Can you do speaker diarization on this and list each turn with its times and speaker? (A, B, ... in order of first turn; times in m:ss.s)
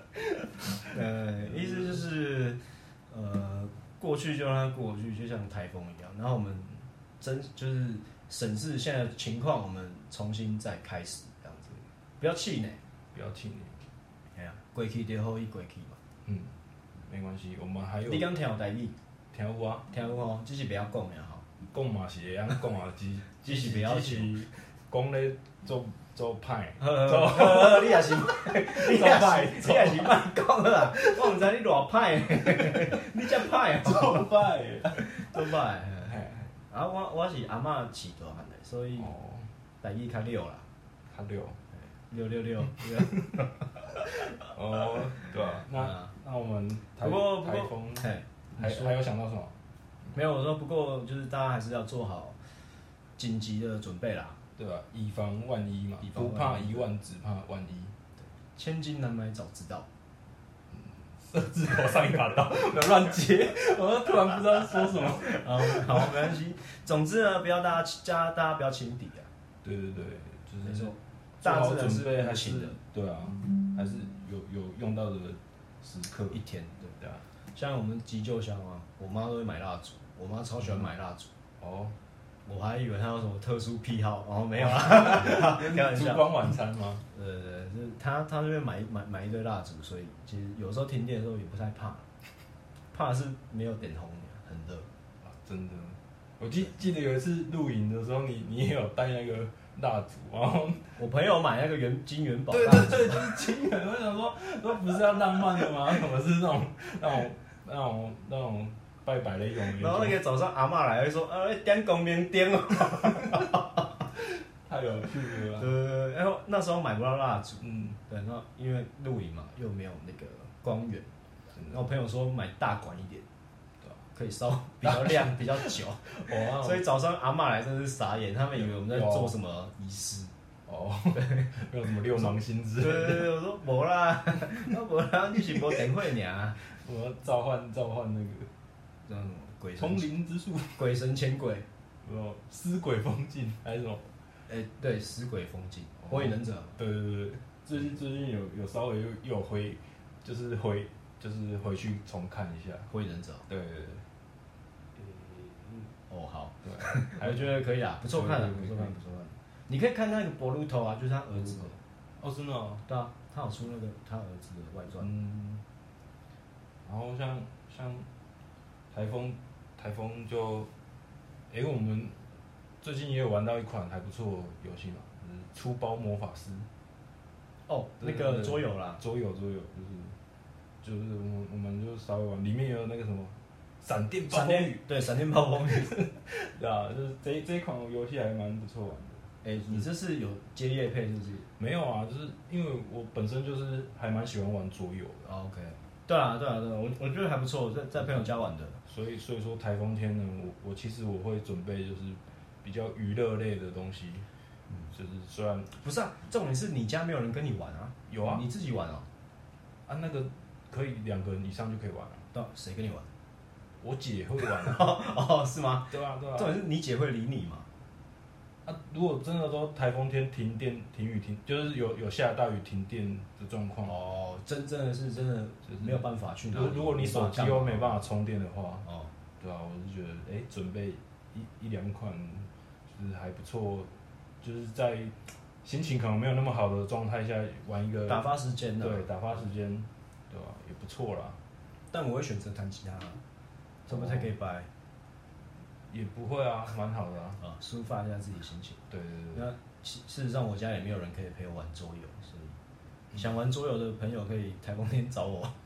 0:00.4-0:00.7 A
0:00.8-0:12.8 B
0:01.4-0:02.0 A
0:13.1-0:13.8 A
0:14.4-0:16.0 B
0:16.2-0:16.6 A
0:17.1-0:18.3 A
0:18.1-0:19.0 B
0:19.3-0:19.9 A
0:19.9-0:21.5 B
0:21.7-0:30.3 A
0:23.4-0:24.5 B
0:26.8-0:34.3 B
0:32.4-0:32.8 A
0:33.8-0:35.4 A
0:35.0-0:39.1 B
0:36.0-0:36.5 A
0:39.0-0:39.5 A
0:39.8-0:40.7 B
0:41.1-0:41.6 A
0:41.8-0:44.3 B
0:44.3-0:49.6 A
0:45.2-0:46.1 B
0:47.0-0:48.9 B
0:50.1-0:52.4 B
0:53.2-0:54.4 B
0:54.6-0:58.0 A
0:56.0-0:56.9 B
0:58.2-0:59.9 B
1:00.7-1:06.4 A
1:05.1-1:09.3 B
1:09.6-1:16.4 A
1:10.6-1:12.8 B
1:16.3-1:17.0 B
1:17.5-1:21.3 B
1:21.6-1:22.0 A
1:22.5-1:26.6 B
1:24.6-1:27.0 A
1:27.1-1:32.1 B
1:32.9-1:34.9 B
1:35.2-1:41.0 A
1:41.0-1:43.4 B
1:42.5-1:50.2 A
1:49.6-1:54.0 B
1:54.3-1:55.7 A
1:55.5-2:01.1 B
1:57.6-1:58.0 A
2:01.5-2:01.8 A
2:01.7-2:03.2 B
2:04.1-2:10.3 B
2:04.8-2:06.8 A
2:08.6-2:09.4 A
2:10.7-2:13.3 A
2:11.2-2:11.5 B
2:12.1-2:16.6 B
2:16.7-2:18.5 A
2:19.0-2:20.1 B
2:19.8-2:20.8 A
2:20.8-2:21.7 B
2:22.0-2:24.1 A
2:24.5-2:26.8 B
2:26.1-2:32.9 A
2:32.9-2:33.5 B
2:33.5-2:34.1 A
2:35.0-2:41.8 B
2:36.6-2:38.9 A
2:41.4-2:42.8 A
2:42.9-2:45.1 B
2:45.0-2:45.6 A
2:46.8-2:48.1 A
2:48.9-2:50.7 A
2:51.5-2:52.2 A
2:52.8-2:56.7 A
2:57.7-2:59.0 B
2:58.0-3:00.2 A
3:00.8-3:04.8 A
3:04.3-3:06.0 B
3:05.8-3:09.9 A
3:09.4-3:11.5 B
3:11.6-3:15.3 A
3:15.2-3:18.8 B
3:18.9-3:24.3 A
3:24.9-3:25.7 A
3:25.8-3:29.1 B
3:28.1-3:28.4 A
3:29.9-3:32.3 A
3:32.3-3:33.1 B
3:33.8-3:34.9 A
3:34.4-3:37.7 B
3:35.9-3:36.6 A
3:38.6-3:44.0 A
3:43.8-3:48.0 B
3:45.7-3:48.9 A
3:48.8-3:49.1 B
3:49.4-3:53.9 A
3:54.4-3:58.3 A
3:58.1-3:59.1 B
3:58.8-4:01.4 A
4:01.9-4:03.2 B
4:03.9-4:04.3 A
4:03.9-4:04.7 B
4:05.9-4:07.4 A
4:07.4-4:08.8 B
4:08.9-4:09.5 A
4:09.3-4:12.6 B
4:13.1-4:15.6 B